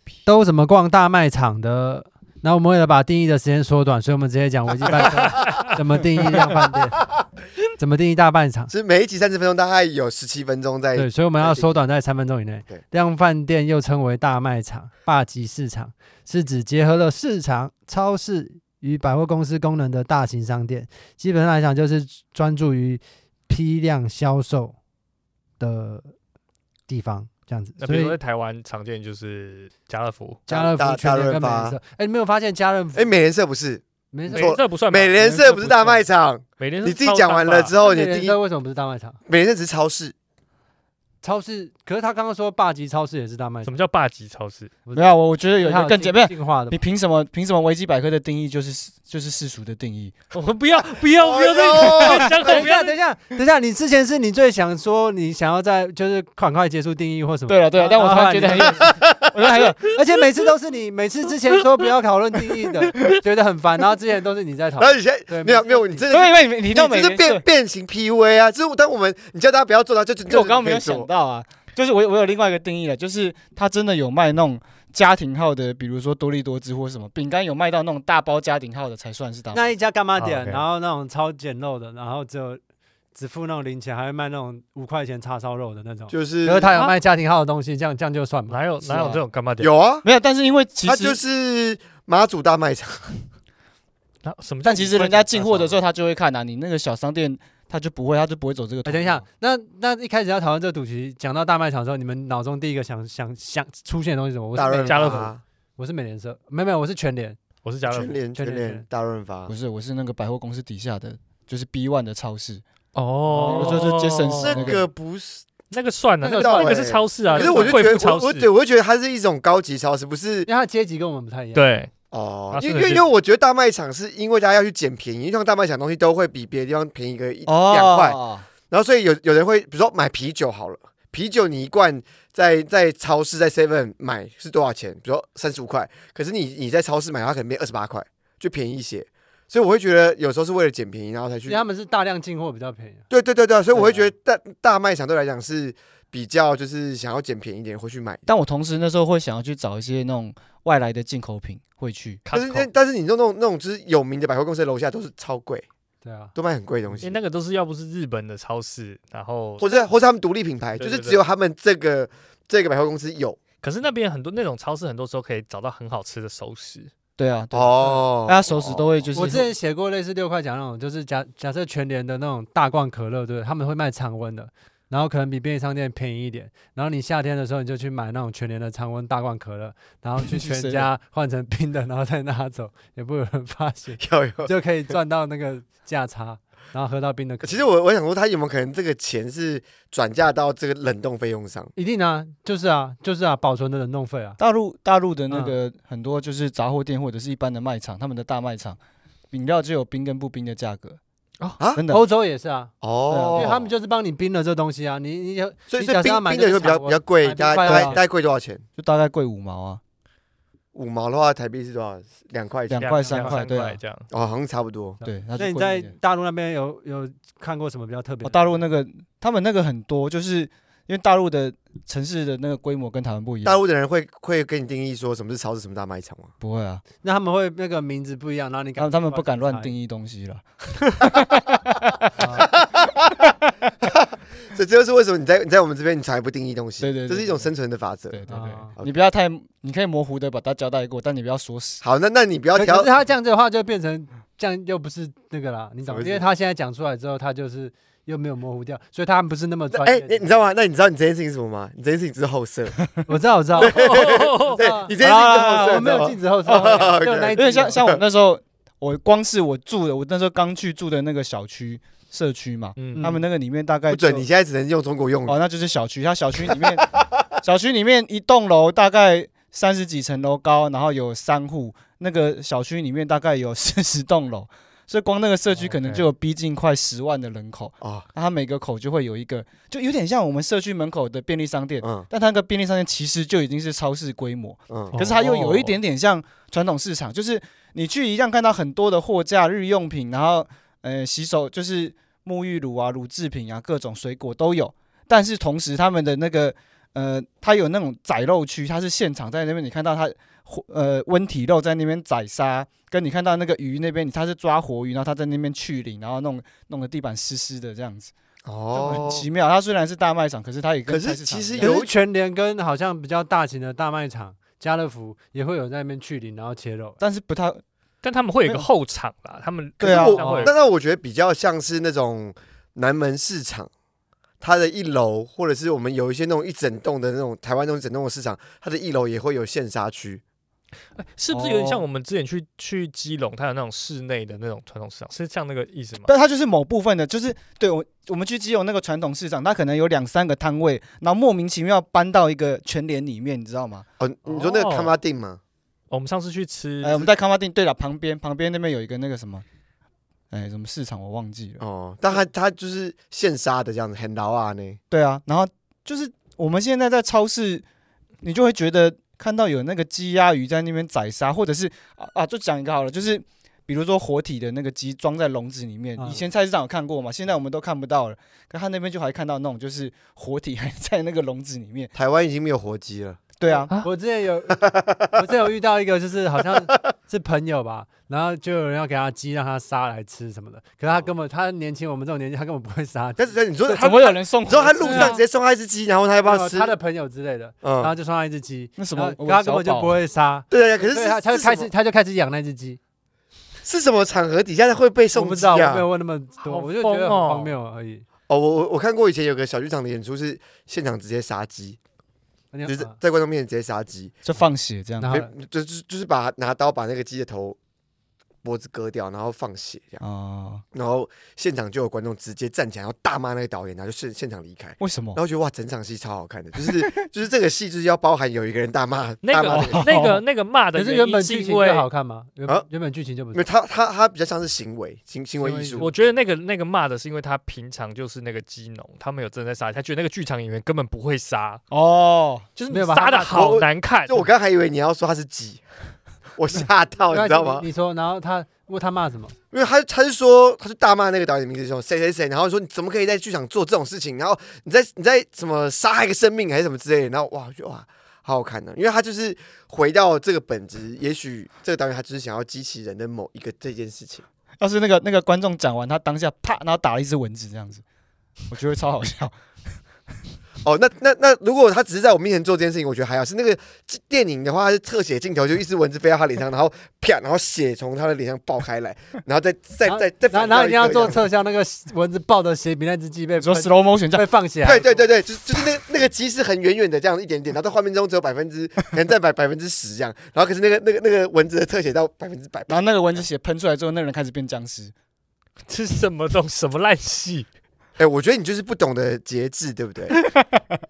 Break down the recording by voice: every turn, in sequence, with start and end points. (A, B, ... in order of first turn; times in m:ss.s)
0:00.2-0:07.0 A
0:05.1-0:05.8 B
0:06.0-0:06.4 C
0:07.8-0:08.7 A
0:08.7-0:11.7 D
0:11.0-0:24.8 A
0:25.6-0:26.1 A
0:26.9-0:28.2 A
0:27.8-0:30.4 B
0:30.5-0:31.8 D
0:30.5-0:33.1 A
0:32.9-0:38.4 D
0:34.1-0:34.5 A
0:34.3-0:35.2 B
0:35.2-0:36.0 C
0:36.6-0:37.7 B
0:37.8-0:39.2 A
0:39.2-0:40.1 D
0:41.2-0:43.7 A
0:43.6-0:44.7 B
0:44.8-0:46.8 A
0:44.9-0:50.1 C
0:50.3-0:53.0 B
0:51.0-0:52.7 D
0:52.0-0:52.3 C
0:52.4-0:58.9 A
0:57.5-0:59.9 C
0:58.8-0:59.5 D
0:59.9-1:06.1 A
1:04.8-1:11.1 D
1:06.1-1:07.4 C
1:10.3-1:19.7 C
1:19.5-1:22.6 A
1:20.2-1:20.6 B
1:23.1-1:28.6 A
1:26.1-1:26.7 D
1:28.5-1:29.7 B
1:28.8-1:29.2 C
1:29.6-1:30.0 D
1:30.0-1:31.2 C
1:30.8-1:33.2 D
1:34.2-1:35.8 B
1:34.6-1:39.2 C
1:38.8-1:47.4 A
1:44.5-1:45.4 D
1:44.9-1:45.3 B
1:47.6-1:48.2 B
1:47.9-1:49.5 D
1:48.4-1:48.8 A
1:49.5-1:52.6 C
1:52.9-1:54.8 B
1:53.3-1:53.7 A
1:53.4-1:54.8 C
1:53.6-1:55.5 D
1:55.7-1:58.5 B
1:56.2-1:57.8 A
1:56.3-2:00.5 D
2:00.5-2:01.6 A
2:01.5-2:01.9 B
2:02.1-2:08.2 D
2:02.5-2:03.0 B
2:07.4-2:08.5 C
2:08.7-2:21.6 D
2:21.5-2:23.0 A
2:23.1-2:28.2 D
2:23.7-2:24.1 C
2:28.2-2:32.2 C
2:32.2-2:32.7 B
2:32.3-2:35.6 D
2:36.0-2:36.3 A
2:36.3-2:37.2 D
2:37.0-2:39.9 B
2:39.6-2:43.4 D
2:40.8-2:41.2 B
2:43.6-2:46.9 B
2:47.2-2:49.5 C
2:47.5-2:49.4 D
2:49.1-3:07.7 A
3:00.2-3:00.9 C
3:04.0-3:04.5 D
3:07.4-3:11.7 D
3:11.8-3:14.4 A
3:14.4-3:18.8 C
3:15.3-3:15.6 A
3:19.3-3:21.0 C
3:21.8-3:22.0 C
3:21.9-3:22.7 A
3:22.8-3:23.7 D
3:23.1-3:23.5 C
3:23.3-3:28.0 A
3:25.7-3:28.6 D
3:27.6-3:28.0 C
3:28.8-3:29.8 C
3:30.7-3:33.0 D
3:32.7-3:33.8 C
3:32.8-3:34.1 B
3:34.1-3:35.0 D
3:35.0-3:38.6 A
3:35.0-3:35.9 C
3:38.2-3:43.6 C
3:43.4-3:46.3 D
3:46.4-3:46.8 C
3:47.0-3:49.8 A
3:48.8-3:50.4 C
3:51.0-3:52.0 C
3:52.2-3:52.5 A
3:52.2-3:53.3 D
3:53.8-3:58.2 D
3:56.8-3:57.5 C
3:58.1-4:01.8 C
3:58.3-3:58.7 A
4:01.8-4:02.9 D
4:02.5-4:10.2 A
4:05.9-4:06.2 D
4:09.7-4:12.8 D
4:13.1-4:13.9 A
4:13.6-4:18.0 D
4:13.6-4:14.6 B
4:14.6-4:17.9 A
4:15.0-4:24.2 C
4:22.8-4:23.1 B
4:23.0-4:23.2 A
4:23.9-4:25.4 D
4:25.3-4:26.9 C
4:26.5-4:27.2 D
4:27.4-5:08.1 C
4:35.6-4:35.9 A
4:37.8-4:38.1 D
4:41.8-4:42.1 D
4:44.7-4:45.0 D
4:44.9-4:45.8 A
5:08.4-5:09.3 D
5:08.7-5:11.7 C
5:10.9-5:11.9 D
5:11.6-5:17.0 A
5:17.0-5:17.6 C
5:18.0-5:20.5 B
5:19.8-5:20.5 C
5:19.8-5:23.7 D
5:24.4-5:30.2 D
5:31.0-5:36.1 B
5:31.3-5:31.8 C
5:36.0-5:43.8 C
5:44.0-5:45.4 D
5:44.3-5:44.9 B
5:45.9-5:47.1 B
5:46.8-5:49.4 C
5:50.3-5:51.6 C
5:51.6-5:54.8 D
5:54.9-5:57.6 C
5:58.2-6:11.9 C
6:06.0-6:06.2 A
6:11.9-6:13.2 D
6:13.4-6:13.7 C
6:13.4-6:23.8 A
6:14.6-6:15.2 D
6:23.2-6:26.7 D
6:23.8-6:25.2 C
6:24.8-6:25.2 A
6:26.2-6:32.8 A
6:27.6-6:27.9 D
6:28.8-6:30.0 C
6:30.5-6:31.7 D
6:33.6-6:35.8 D
6:35.1-6:38.0 A
6:36.4-6:37.5 B
6:38.3-6:41.8 D
6:42.5-6:43.0 A
6:42.6-6:44.2 D
6:44.2-6:45.1 C
6:45.0-6:45.3 A
6:45.1-6:47.6 D
6:48.4-6:50.0 D
6:50.0-6:50.6 C
6:50.7-6:59.9 D
6:54.8-6:55.2 C
6:56.6-6:56.9 C
6:59.2-7:01.8 B
6:59.4-7:00.2 C
7:00.7-7:03.4 A
7:03.3-7:05.9 D
7:05.4-7:06.0 A
7:05.8-7:11.6 B
7:11.7-7:12.4 C
7:12.6-7:14.2 B
7:12.7-7:13.4 A
7:13.3-7:15.6 D
7:16.4-7:17.6 D
7:17.1-7:19.3 A
7:19.5-7:34.2 D
7:34.6-7:37.8 C
7:38.5-7:39.3 C
7:40.6-7:51.3 D
7:49.8-7:54.9 A
7:53.4-7:54.3 C
7:54.6-8:03.2 D
8:02.7-8:04.9 C
8:05.7-8:07.5 B
8:08.0-8:10.2 D